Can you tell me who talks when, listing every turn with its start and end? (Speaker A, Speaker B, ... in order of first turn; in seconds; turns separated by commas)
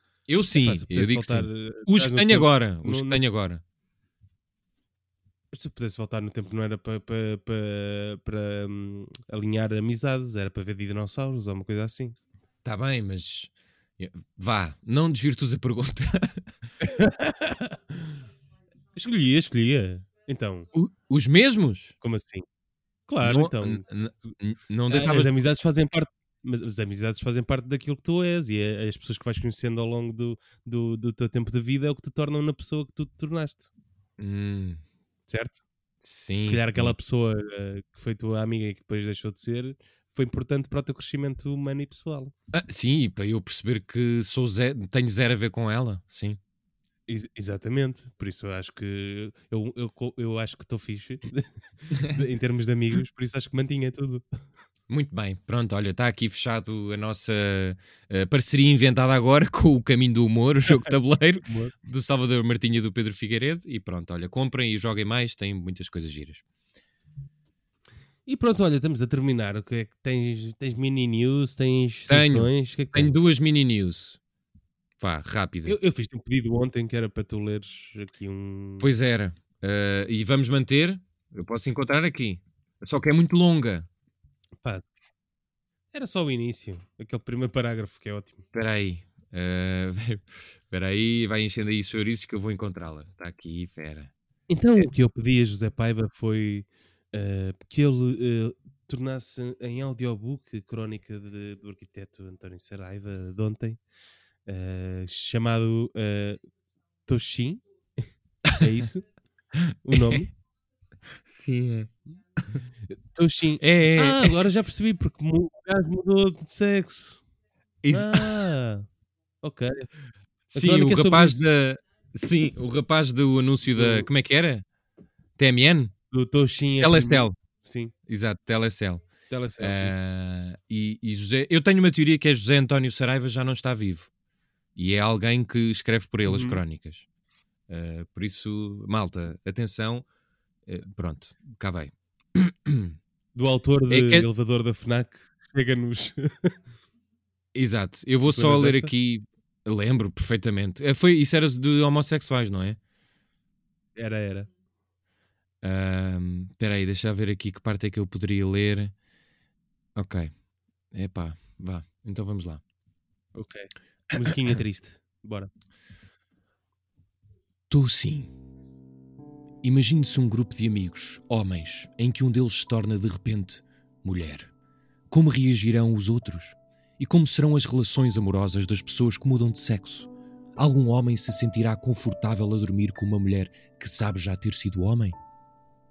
Speaker A: 0.3-3.6, Speaker B: 0.5-3.2, Speaker B: 5.5-12.2, Speaker A: 12.6-16.5, Speaker B: 16.8-18.2, Speaker B: 19.0-20.7, Speaker A: 20.7-21.9, Speaker B: 22.0-22.4, Speaker B: 23.1-23.8, Speaker A: 23.2-25.5, Speaker B: 24.9-33.7, Speaker A: 34.2-34.8, Speaker B: 35.3-35.6, Speaker A: 36.0-37.0, Speaker B: 36.4-42.3, Speaker A: 42.5-46.4, Speaker B: 47.1-54.2, Speaker A: 54.9-66.4, Speaker B: 61.4-61.7, Speaker B: 68.3-73.1, Speaker A: 72.1-74.2, Speaker A: 75.0-75.8, Speaker B: 75.7-78.9, Speaker A: 78.8-83.9, Speaker B: 84.6-84.9, Speaker B: 85.9-88.5, Speaker A: 88.5-94.1, Speaker B: 94.5-103.8, Speaker B: 104.5-106.4, Speaker B: 107.1-107.6, Speaker B: 108.5-109.1, Speaker A: 109.5-110.2, Speaker B: 109.8-110.3, Speaker A: 111.3-111.9, Speaker B: 113.1-117.2, Speaker A: 113.6-114.4, Speaker A: 117.8-118.5, Speaker B: 117.9-118.9, Speaker B: 119.4-119.9, Speaker B: 120.5-121.5, Speaker A: 120.5-124.6, Speaker B: 123.7-124.1, Speaker A: 125.4-125.9, Speaker B: 126.1-127.9, Speaker A: 126.8-127.3, Speaker A: 128.1-129.0, Speaker B: 129.3-129.9, Speaker A: 129.6-134.1, Speaker A: 134.8-137.1, Speaker B: 136.2-136.6, Speaker A: 137.7-140.1, Speaker A: 140.7-142.9, Speaker B: 143.3-146.5, Speaker A: 143.9-144.3, Speaker A: 147.5-152.8, Speaker B: 148.3-148.9, Speaker B: 154.0-154.5, Speaker A: 155.6-158.9, Speaker A: 160.0-160.3, Speaker A: 160.9-162.6, Speaker B: 163.3-165.5, Speaker A: 167.7-168.3, Speaker A: 169.6-174.5, Speaker A: 175.1-185.2